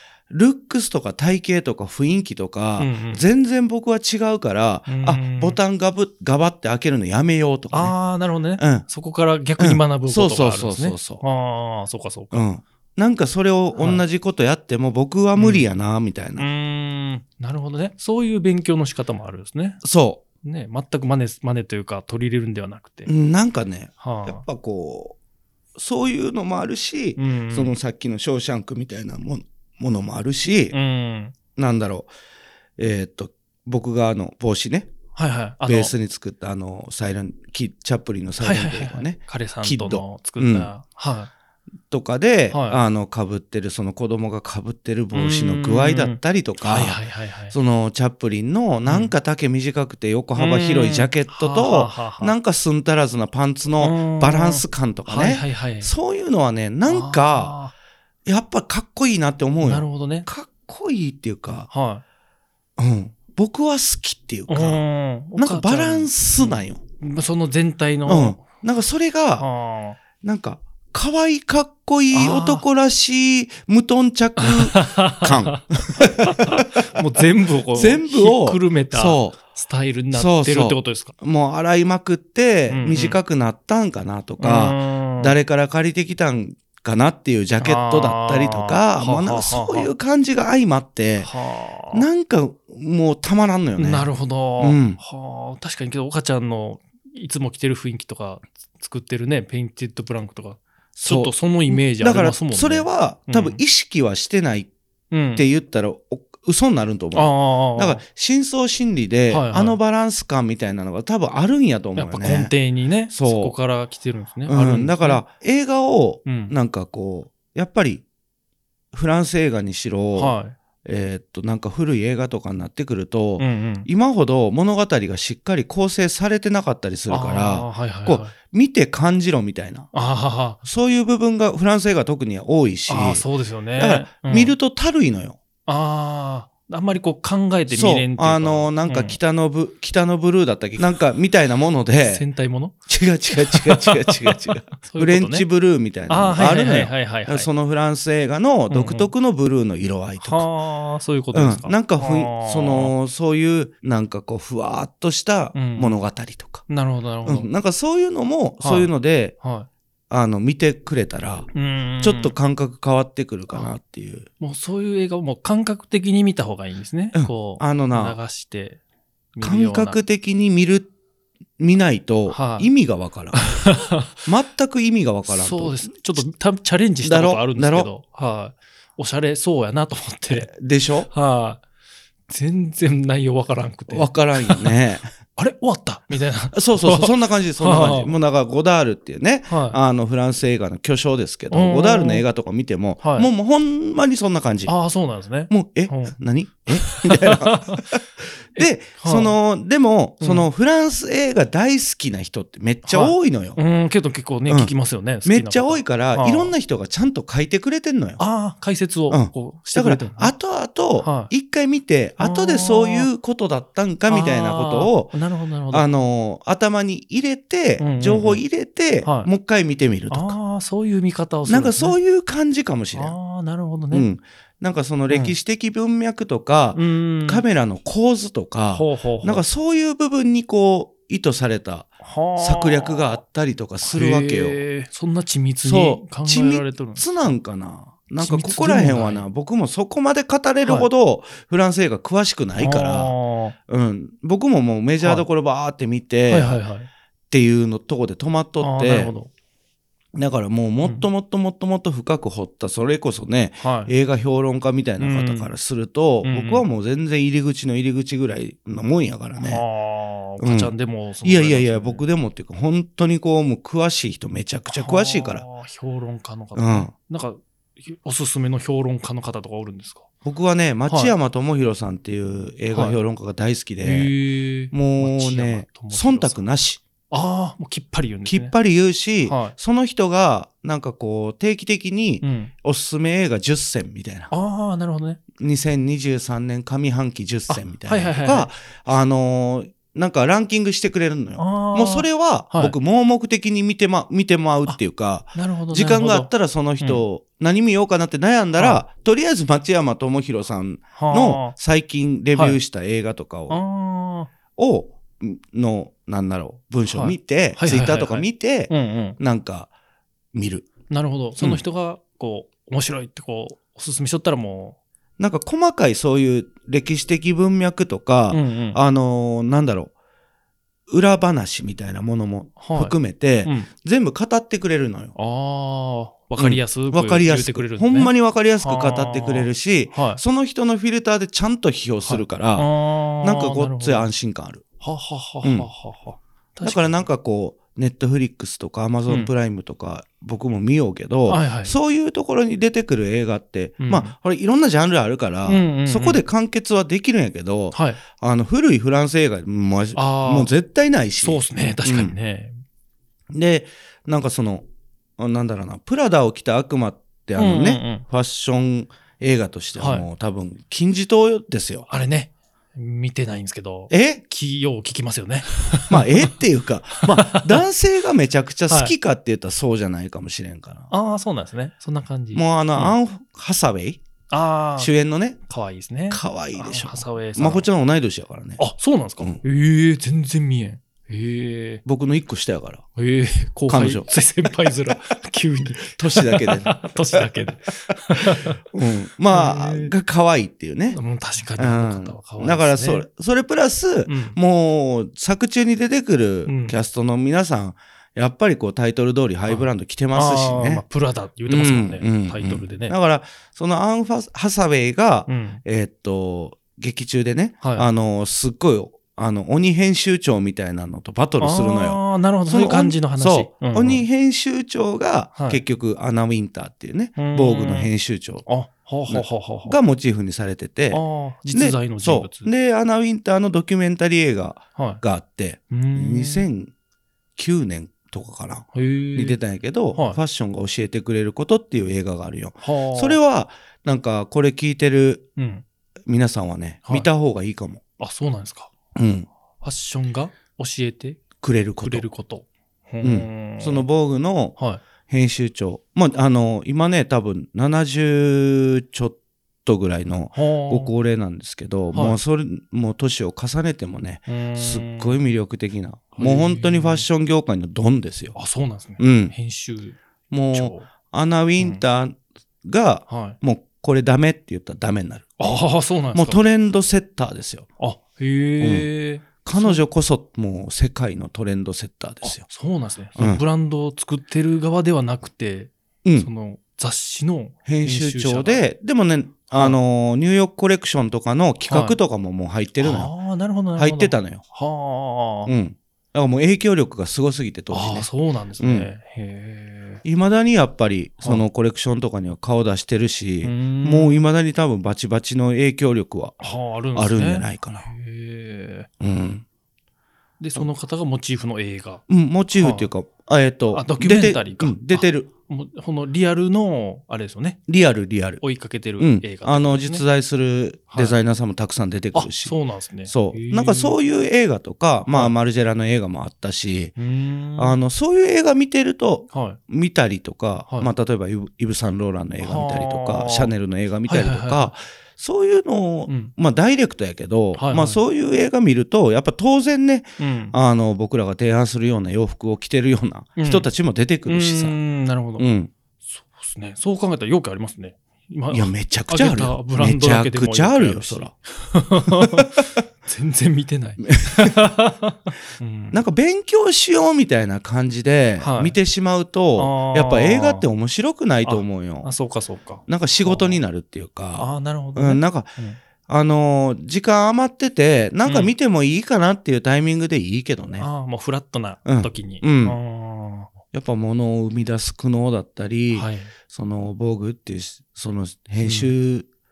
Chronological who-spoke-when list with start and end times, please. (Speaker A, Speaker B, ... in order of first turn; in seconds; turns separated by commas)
Speaker A: 0.3-8.0, Speaker B: 2.8-3.2, Speaker B: 4.9-5.6, Speaker B: 7.7-12.4, Speaker A: 8.6-8.9, Speaker A: 9.6-11.2, Speaker A: 12.3-16.5, Speaker B: 13.8-14.0, Speaker B: 15.4-15.7, Speaker B: 16.4-19.8, Speaker A: 19.8-20.2, Speaker B: 20.4-23.1, Speaker A: 23.1-25.2, Speaker B: 24.0-24.4, Speaker A: 25.8-30.8, Speaker B: 27.2-27.7, Speaker B: 30.7-31.4, Speaker A: 31.6-32.1, Speaker A: 32.8-34.9, Speaker B: 35.1-35.9, Speaker A: 35.7-40.7, Speaker B: 38.4-41.3, Speaker A: 41.9-47.0, Speaker B: 42.5-42.8, Speaker B: 45.1-47.6, Speaker A: 47.5-57.6, Speaker B: 48.9-49.1, Speaker B: 50.4-52.4, Speaker B: 53.8-55.9, Speaker B: 56.9-57.7, Speaker A: 58.3-61.7, Speaker B: 59.6-60.3, Speaker B: 61.7-62.0, Speaker A: 62.8-64.8, Speaker B: 64.5-68.4, Speaker A: 65.4-66.8, Speaker A: 68.1-69.5, Speaker B: 69.4-70.0, Speaker A: 70.2-77.0, Speaker B: 72.1-72.7, Speaker B: 74.4-81.2, Speaker A: 77.7-79.4, Speaker A: 80.1-91.3, Speaker B: 82.7-83.2, Speaker B: 84.4-85.3, Speaker B: 87.6-89.9, Speaker B: 91.2-92.1, Speaker A: 91.9-95.0, Speaker B: 93.8-103.6, Speaker A: 101.0-104.7, Speaker B: 105.1-105.5, Speaker A: 105.3-112.5, Speaker B: 107.1-108.0, Speaker B: 109.3-109.8, Speaker B: 112.0-115.2, Speaker A: 113.1-113.5, Speaker A: 114.5-118.0, Speaker B: 116.2-116.5, Speaker A: 118.9-129.9, Speaker B: 120.2-120.5, Speaker B: 123.4-123.9, Speaker B: 127.1-128.3, Speaker B: 129.9-130.6, Speaker A: 130.6-133.3, Speaker B: 132.9-134.6, Speaker A: 133.8-135.4, Speaker B: 135.7-139.2, Speaker A: 137.7-142.3, Speaker B: 142.1-142.8, Speaker A: 142.9-150.5, Speaker B: 143.3-145.5, Speaker B: 146.1-147.5, Speaker B: 148.7-149.1, Speaker B: 150.2-152.9, Speaker A: 151.3-156.7, Speaker B: 155.5-156.0, Speaker B: 156.7-157.5, Speaker A: 157.2-159.4, Speaker B: 158.6-159.7, Speaker A: 160.1-164.3, Speaker B: 161.5-162.3, Speaker B: 164.4-168.8, Speaker A: 167.1-168.2, Speaker B: 169.3-170.0, Speaker A: 169.4-170.9, Speaker A: 171.6-173.7, Speaker B: 172.3-172.7, Speaker B: 173.3-174.3, Speaker A: 174.2-176.2, Speaker B: 175.3-180.5, Speaker A: 177.0-177.9, Speaker A: 180.3-181.1, Speaker B: 181.1-181.6, Speaker B: 182.3-184.8, Speaker A: 183.9-185.1, Speaker B: 185.4-188.2, Speaker A: 186.5-194.8, Speaker B: 189.5-189.8, Speaker B: 191.5-192.3, Speaker B: 193.0-193.3, Speaker B: 194.7-196.2, Speaker A: 195.5-203.6, Speaker B: 196.7-198.0, Speaker B: 198.6-199.4, Speaker B: 200.2-200.5, Speaker B: 202.8-206.5, Speaker A: 204.5-208.2, Speaker B: 208.2-210.3, Speaker A: 209.1-215.2, Speaker B: 211.0-211.3, Speaker B: 212.2-213.1, Speaker B: 214.1-215.9, Speaker A: 215.7-220.4, Speaker B: 217.8-218.4, Speaker B: 219.0-219.3, Speaker B: 220.1-222.0, Speaker A: 221.5-223.2, Speaker B: 222.9-224.1, Speaker A: 223.9-234.6, Speaker B: 225.1-225.4, Speaker B: 226.8-227.4, Speaker B: 228.7-229.4, Speaker B: 232.0-233.2, Speaker B: 233.8-237.3, Speaker A: 235.6-243.2, Speaker B: 238.2-239.3, Speaker B: 240.6-240.9, Speaker B: 242.6-243.6, Speaker A: 243.7-246.6, Speaker B: 245.0-245.3, Speaker B: 246.3-246.9, Speaker A: 247.3-249.1, Speaker B: 248.6-249.3, Speaker A: 250.1-259.6, Speaker B: 253.6-253.9, Speaker B: 255.0-255.5, Speaker B: 256.2-256.6, Speaker B: 259.4-262.1, Speaker A: 260.4-265.4, Speaker B: 264.7-270.1, Speaker A: 266.6-266.9, Speaker A: 270.2-274.1, Speaker B: 270.9-271.1, Speaker B: 272.7-273.0, Speaker B: 273.8-276.4, Speaker A: 274.7-276.8, Speaker B: 277.1-278.6, Speaker A: 278.3-284.3, Speaker B: 279.2-279.6, Speaker B: 282.2-282.5, Speaker B: 284.3-285.2, Speaker A: 285.4-303.6, Speaker B: 287.5-288.5, Speaker B: 291.4-292.8, Speaker B: 295.4-297.0, Speaker B: 298.6-298.8, Speaker B: 300.9-301.6, Speaker B: 303.5-304.3, Speaker A: 304.6-309.7, Speaker B: 306.9-309.2, Speaker A: 310.3-310.7, Speaker B: 310.9-314.8, Speaker A: 315.2-319.9, Speaker B: 318.3-318.8, Speaker A: 320.9-325.1, Speaker B: 322.6-323.7, Speaker B: 325.2-330.2, Speaker A: 326.4-332.7, Speaker B: 332.1-334.1, Speaker A: 333.2-334.6, Speaker B: 334.8-337.0, Speaker A: 335.4-335.7, Speaker A: 336.6-352.1, Speaker B: 341.3-341.8, Speaker B: 343.8-344.1, Speaker B: 345.4-346.2, Speaker B: 347.7-348.0, Speaker B: 349.9-350.5, Speaker B: 351.2-352.6, Speaker A: 353.3-354.6, Speaker A: 355.2-361.9, Speaker B: 357.4-358.1, Speaker B: 359.8-360.1, Speaker B: 361.9-366.4, Speaker A: 363.9-364.2, Speaker A: 365.9-370.9, Speaker B: 367.0-367.7, Speaker B: 368.7-368.9, Speaker B: 370.9-373.0, Speaker A: 372.3-374.0, Speaker B: 374.3-374.9, Speaker A: 374.8-375.4, Speaker B: 375.5-377.7, Speaker A: 376.1-378.6, Speaker B: 378.6-381.8, Speaker A: 381.9-382.9, Speaker B: 383.0-388.6, Speaker A: 383.7-384.8, Speaker A: 385.8-387.3, Speaker A: 388.2-391.0, Speaker B: 389.3-389.9, Speaker B: 390.9-393.1, Speaker A: 391.6-400.8, Speaker B: 394.1-394.4, Speaker B: 396.5-396.8, Speaker B: 399.5-402.9, Speaker A: 401.5-418.5, Speaker B: 405.3-405.6, Speaker B: 407.6-407.9, Speaker B: 411.4-414.1, Speaker B: 415.4-415.6, Speaker B: 417.2-417.9, Speaker B: 418.4-419.8, Speaker A: 419.1-426.7, Speaker B: 420.9-422.5, Speaker B: 424.8-425.0, Speaker B: 425.7-426.5, Speaker A: 427.4-435.3, Speaker B: 428.7-429.4, Speaker B: 429.9-430.2, Speaker B: 432.6-433.2, Speaker B: 435.4-435.6, Speaker A: 436.1-437.8, Speaker B: 438.0-438.7, Speaker A: 438.9-439.3, Speaker B: 439.6-441.2, Speaker A: 441.4-442.1, Speaker B: 441.8-443.9, Speaker A: 443.0-458.4, Speaker B: 444.6-444.8, Speaker B: 450.3-450.9, Speaker B: 454.3-455.2, Speaker B: 456.1-457.1, Speaker B: 458.4-460.0, Speaker A: 459.0-459.3, Speaker A: 460.3-465.6, Speaker B: 460.5-460.9, Speaker B: 463.1-463.4, Speaker B: 465.4-466.4, Speaker A: 466.1-467.7, Speaker B: 467.8-469.8, Speaker A: 468.6-468.9, Speaker A: 469.4-472.5, Speaker B: 472.2-478.7, Speaker A: 473.2-473.4, Speaker A: 476.0-476.3, Speaker A: 477.7-483.1, Speaker B: 479.5-479.8, Speaker B: 481.7-482.0, Speaker B: 482.8-485.5, Speaker A: 483.8-484.4, Speaker A: 485.5-488.9, Speaker B: 487.7-490.0, Speaker A: 490.0-496.4, Speaker B: 493.4-494.3, Speaker B: 496.4-498.9, Speaker A: 496.9-497.9, Speaker A: 499.0-499.4, Speaker B: 500.4-502.0, Speaker A: 502.1-505.3, Speaker B: 502.6-502.9, Speaker B: 503.7-507.6, Speaker A: 507.7-508.4, Speaker B: 508.4-510.1, Speaker A: 509.0-516.9, Speaker B: 510.9-511.2, Speaker B: 512.1-514.0, Speaker B: 517.0-517.8, Speaker A: 517.6-534.8, Speaker B: 519.3-519.6, Speaker B: 522.4-523.5, Speaker B: 524.1-524.8, Speaker B: 526.1-526.3, Speaker B: 527.6-528.0, Speaker B: 530.2-530.5, Speaker B: 533.4-533.7, Speaker B: 534.3-535.5, Speaker A: 535.4-535.7, Speaker B: 536.0-546.0, Speaker A: 538.5-541.3, Speaker A: 542.1-542.5, Speaker A: 544.1-544.7, Speaker A: 545.9-552.1, Speaker B: 548.4-548.8, Speaker B: 549.6-550.7, Speaker B: 551.4-553.6, Speaker A: 552.9-555.5, Speaker B: 554.4-555.8, Speaker A: 556.0-560.9, Speaker B: 558.2-558.5, Speaker B: 560.8-563.5, Speaker A: 561.9-562.8, Speaker A: 563.7-569.3, Speaker B: 565.9-566.3, Speaker B: 568.6-568.9